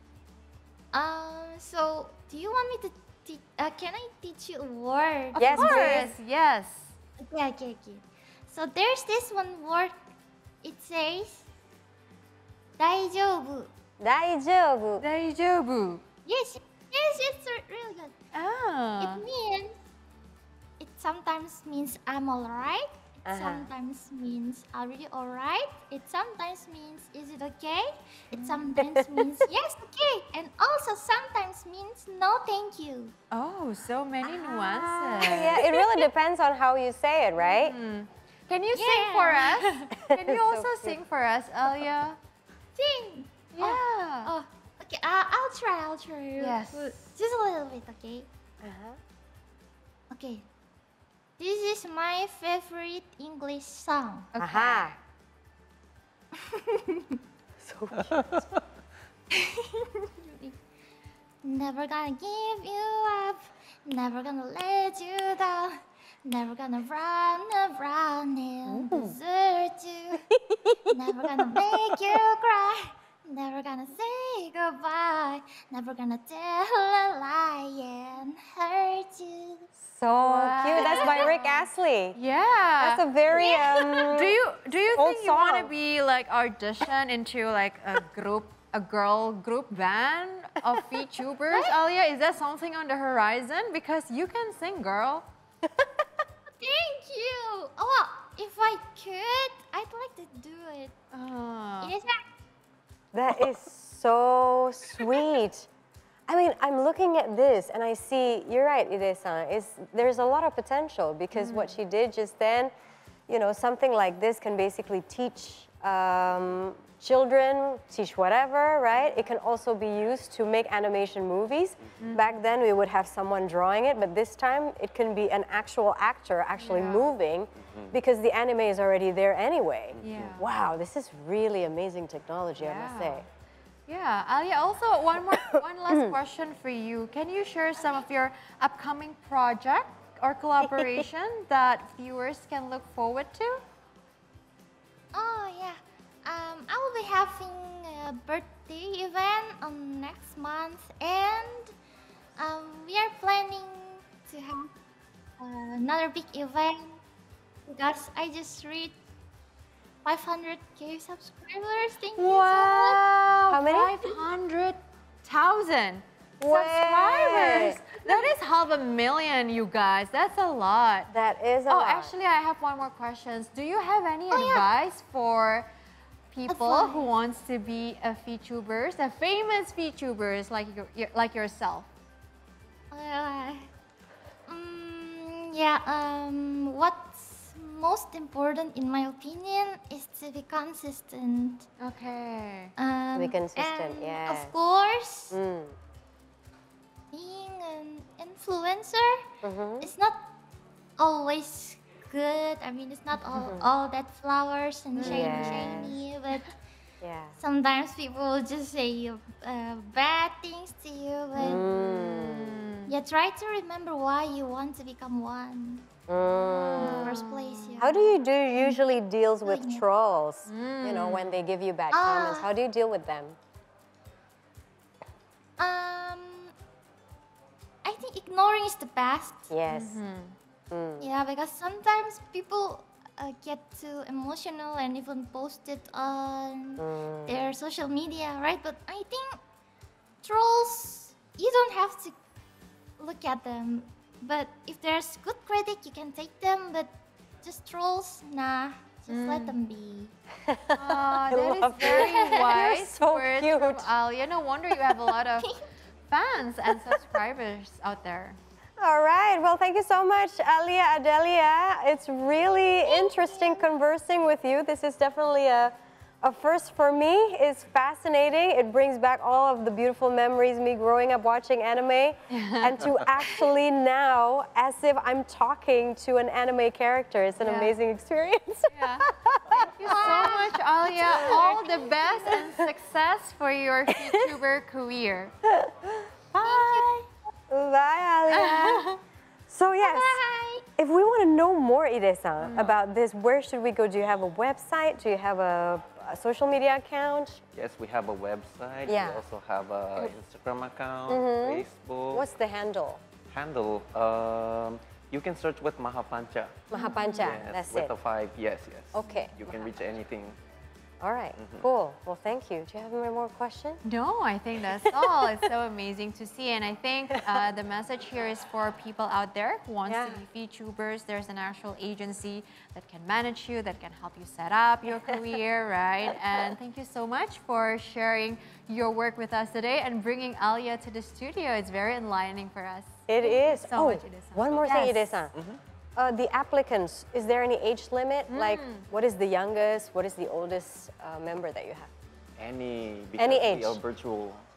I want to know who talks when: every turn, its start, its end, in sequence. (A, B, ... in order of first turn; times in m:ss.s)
0:00.9-0:06.0 A
0:05.4-0:06.1 B
0:05.5-0:06.9 C
0:07.2-0:09.9 A
0:10.6-0:11.4 A
0:12.8-0:13.7 A
0:14.0-0:15.0 B
0:15.0-0:16.0 C
0:16.2-0:18.1 A
0:18.3-0:19.2 C
0:19.0-0:19.8 A
0:20.8-0:33.1 A
0:23.2-0:23.7 B
0:28.3-0:28.7 C
0:33.3-0:35.5 C
0:34.2-0:37.8 B
0:35.3-0:36.0 A
0:37.4-0:42.2 C
0:38.7-0:39.9 A
0:40.0-0:41.0 B
0:42.8-0:48.3 A
0:43.5-0:44.3 C
0:46.4-0:47.0 C
0:48.6-0:49.0 B
0:50.1-0:50.4 A
0:51.4-0:54.3 A
0:54.3-0:54.9 C
0:54.4-0:55.0 B
0:56.6-0:57.1 A
0:57.6-0:58.4 B
0:59.3-1:00.6 A
1:01.4-1:10.2 A
1:08.7-1:09.1 C
1:10.3-1:11.3 B
1:10.9-1:19.7 A
1:19.8-1:22.2 B
1:20.2-1:23.0 C
1:20.7-1:21.4 A
1:22.8-1:24.4 B
1:23.3-1:24.1 A
1:23.9-1:35.2 C
1:24.9-1:25.7 B
1:31.5-1:31.8 A
1:36.6-1:40.9 A
1:41.1-1:41.9 C
1:41.8-1:42.2 A
1:43.1-1:45.7 B
1:46.3-1:52.7 B
1:51.3-1:51.7 C
1:53.3-2:13.2 B
2:02.0-2:02.4 C
2:06.6-2:07.1 C
2:07.6-2:08.0 D
2:09.9-2:10.4 D
2:10.0-2:10.4 C
2:12.6-2:13.2 C
2:13.9-2:23.6 C
2:15.3-2:16.2 B
2:25.1-2:31.7 A
2:32.4-2:34.7 A
2:35.4-2:37.0 A
2:37.7-2:38.9 A
2:40.0-2:43.0 A
2:42.2-2:51.1 C
2:43.5-2:44.0 B
2:46.4-2:47.8 B
2:48.1-2:48.3 A
2:51.1-2:52.1 B
2:51.7-2:55.7 C
2:54.3-2:54.7 A
2:56.3-3:01.9 C
2:56.5-2:57.1 A
3:02.9-3:03.7 A
3:04.5-3:11.7 A
3:11.8-3:12.7 C
3:12.8-3:15.4 A
3:13.1-3:14.5 B
3:15.3-3:15.8 B
3:17.1-3:19.2 A
3:19.4-3:19.9 B
3:19.8-3:20.3 A
3:21.0-3:26.5 A
3:23.4-3:23.7 B
3:25.0-3:25.9 C
3:25.0-3:26.0 B
3:27.0-3:27.4 B
3:27.4-3:31.6 A
3:31.4-3:32.7 B
3:31.4-3:32.9 C
3:32.9-3:35.9 A
3:36.1-3:37.2 B
3:36.4-3:37.9 C
3:36.7-3:38.7 A
3:37.8-3:43.4 B
3:39.4-3:39.8 A
3:40.5-3:41.4 C
3:41.9-3:42.5 A
3:45.6-3:46.5 A
3:47.8-3:49.5 A
3:49.5-3:50.0 B
3:49.7-3:50.3 C
3:50.7-3:51.1 B
3:51.0-3:59.4 A
3:56.8-3:57.5 B
4:00.2-4:02.1 A
4:03.0-4:06.9 A
4:07.4-4:10.1 A
4:09.1-4:09.5 C
4:10.5-4:13.9 B
4:10.8-4:18.4 C
4:11.8-4:12.2 A
4:18.8-4:40.2 B
4:22.8-4:23.7 A
4:32.3-4:32.7 C
4:37.4-4:37.8 C
4:38.7-4:39.1 C
4:39.6-4:45.3 C
4:39.8-4:42.0 A
4:41.0-4:41.4 B
4:42.2-4:42.6 B
4:45.6-4:48.9 B
4:46.4-4:47.0 A
4:48.3-4:49.0 C
4:49.5-4:50.2 B
4:49.8-4:50.6 A
4:50.8-4:57.4 B
4:52.5-4:52.7 D
4:57.5-5:02.3 D
4:58.8-4:59.2 B
5:01.1-5:03.0 B
5:03.3-5:10.4 D
5:06.7-5:07.9 B
5:06.7-5:07.4 C
5:08.9-5:09.7 B
5:11.0-5:13.8 B
5:11.4-5:11.6 D
5:13.8-5:35.2 C
5:19.9-5:20.2 B
5:33.1-5:35.3 B
5:35.3-5:35.6 D
5:36.0-5:41.9 B
5:38.3-5:38.8 C
5:42.4-5:44.4 D
5:43.2-5:43.8 B